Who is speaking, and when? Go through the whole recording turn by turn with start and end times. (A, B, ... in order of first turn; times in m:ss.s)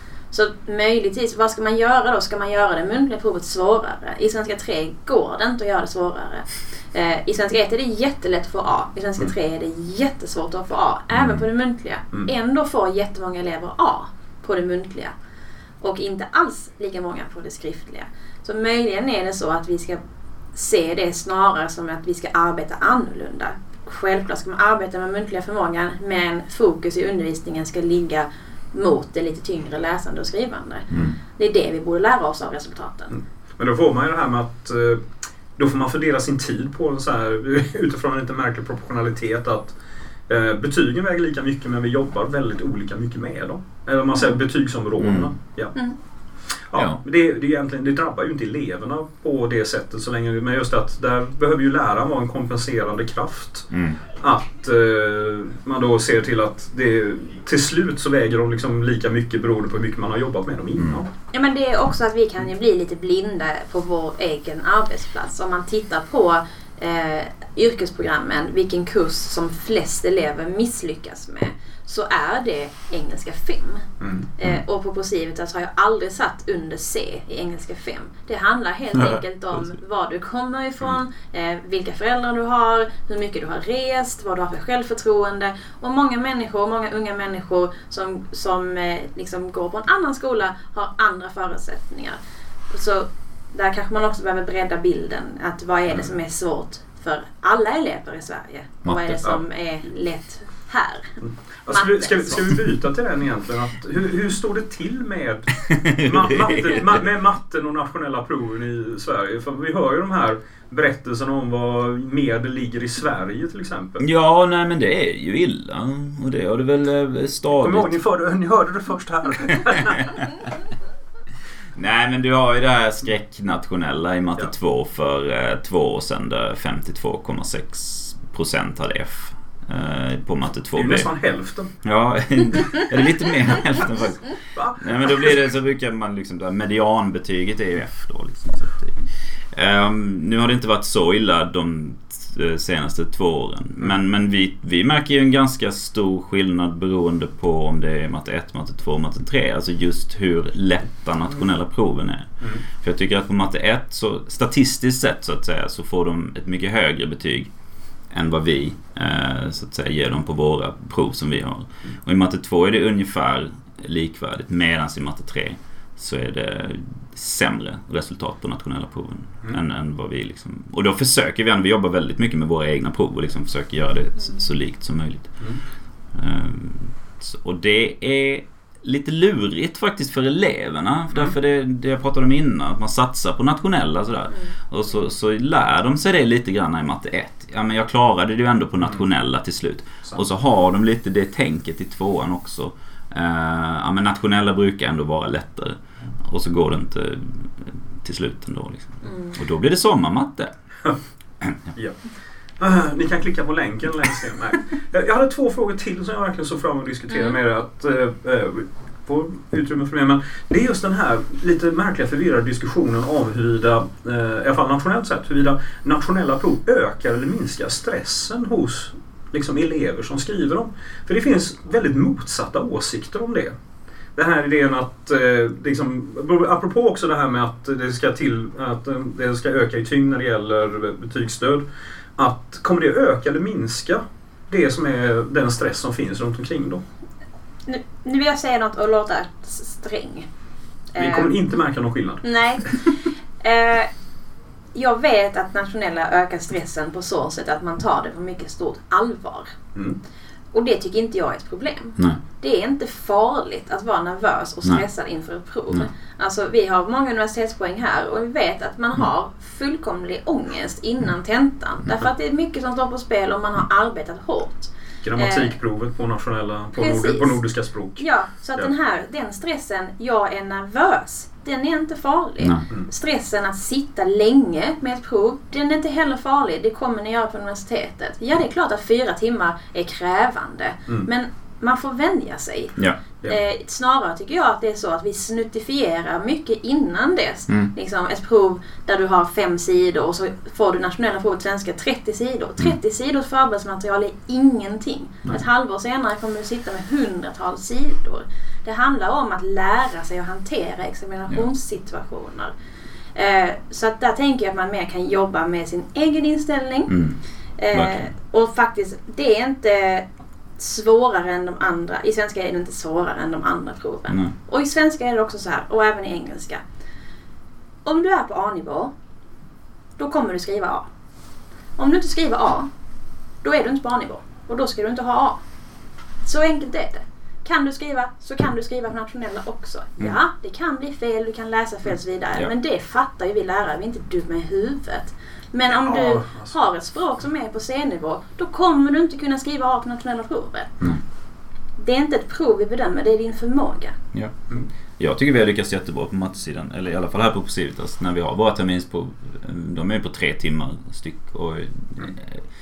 0:00.3-0:15.1 A
0:11.1-0:11.4 B
0:15.8-0:20.0 A
0:20.5-0:33.1 A
0:33.6-0:35.0 C
0:35.6-0:39.8 C
0:40.3-0:45.7 C
0:45.0-0:45.3 B
0:46.7-1:01.1 C
0:46.7-0:47.0 B
0:53.7-0:54.0 B
1:00.8-1:01.0 B
1:01.3-1:13.8 A
1:14.0-1:14.3 C
1:14.4-1:32.2 A
1:32.7-1:42.6 A
1:38.8-1:39.2 B
1:41.2-1:45.5 C
1:45.6-1:47.0 B
1:46.0-1:54.0 C
1:54.0-1:58.0 B
1:57.6-2:00.0 C
1:59.7-2:00.2 B
2:01.8-2:11.1 B
2:10.7-2:11.7 C
2:11.8-2:19.0 B
2:14.5-2:15.4 C
2:19.5-2:37.5 B
2:38.1-2:55.4 B
2:56.1-3:20.5 B
3:19.0-3:19.4 A
3:22.6-3:43.5 C
3:27.1-3:27.4 A
3:44.2-3:51.6 C
3:52.2-3:56.8 C
3:57.7-4:00.3 A
4:00.9-4:01.4 A
4:01.0-4:02.2 C
4:02.2-4:03.9 A
4:04.7-4:09.5 A
4:10.5-4:25.5 A
4:25.0-4:28.7 C
4:26.7-4:27.4 A
4:28.0-5:02.5 A
5:03.1-5:06.9 A
5:06.9-5:07.2 B
5:07.6-5:10.0 A
5:07.7-5:08.1 B
5:10.6-5:16.6 A
5:17.8-5:18.9 A
5:20.0-5:20.8 A
5:21.8-5:22.7 A
5:23.4-5:25.4 A
5:26.2-5:40.8 A
5:35.8-5:36.5 C
5:41.8-5:43.9 A
5:45.0-5:52.4 B